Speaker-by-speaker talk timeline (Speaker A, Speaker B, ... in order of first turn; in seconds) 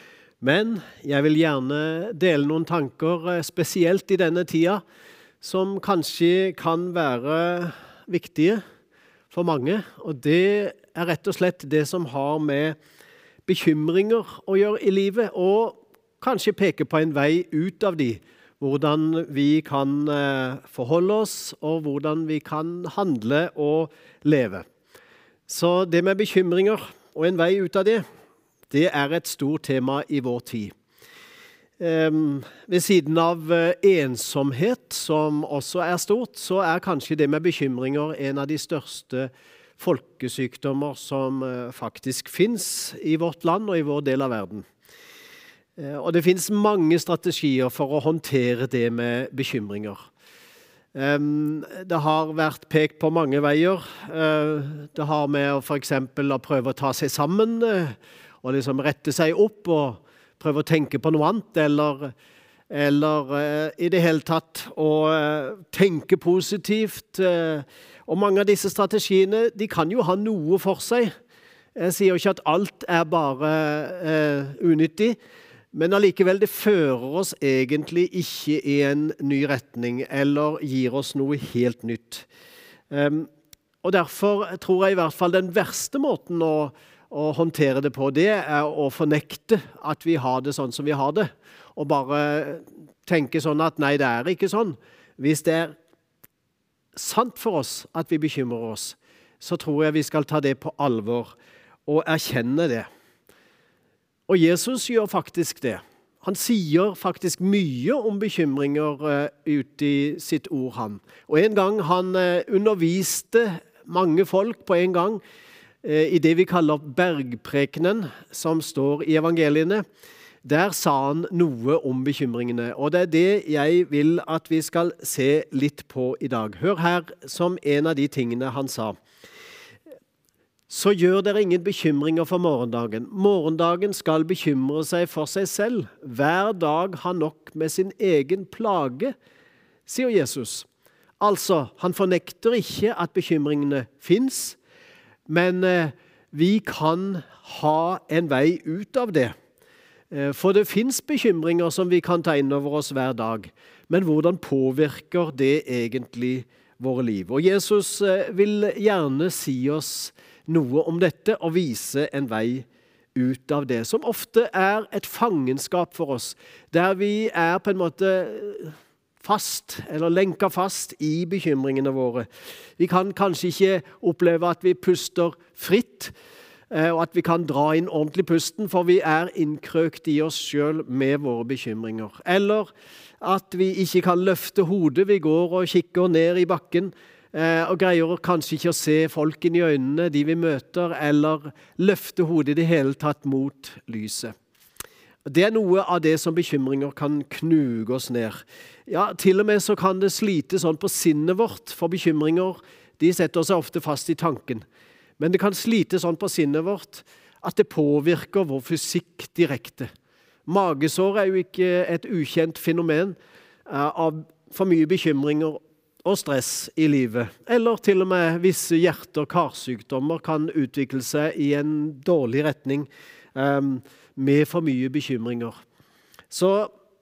Speaker A: 0.4-4.8, 5.4-8.6, 9.3-12.8, 13.4-24.6, 25.5-28.0, 28.7-30.7, 31.8-44.6, 45.8-50.1, 50.9-62.1, 62.7-71.1, 71.7-75.2, 75.7-82.3, 82.9-83.3, 83.8-95.8, 96.9-102.9, 104.3-115.2, 115.8-119.8, 120.4-129.0, 130.7-139.1, 139.9-140.7, 141.2-144.6, 145.3-149.3, 150.1-172.3, 172.8-176.1, 176.7-194.3, 195.2-204.6, 205.2-209.9, 210.5-213.2, 213.7-225.6, 226.3-226.7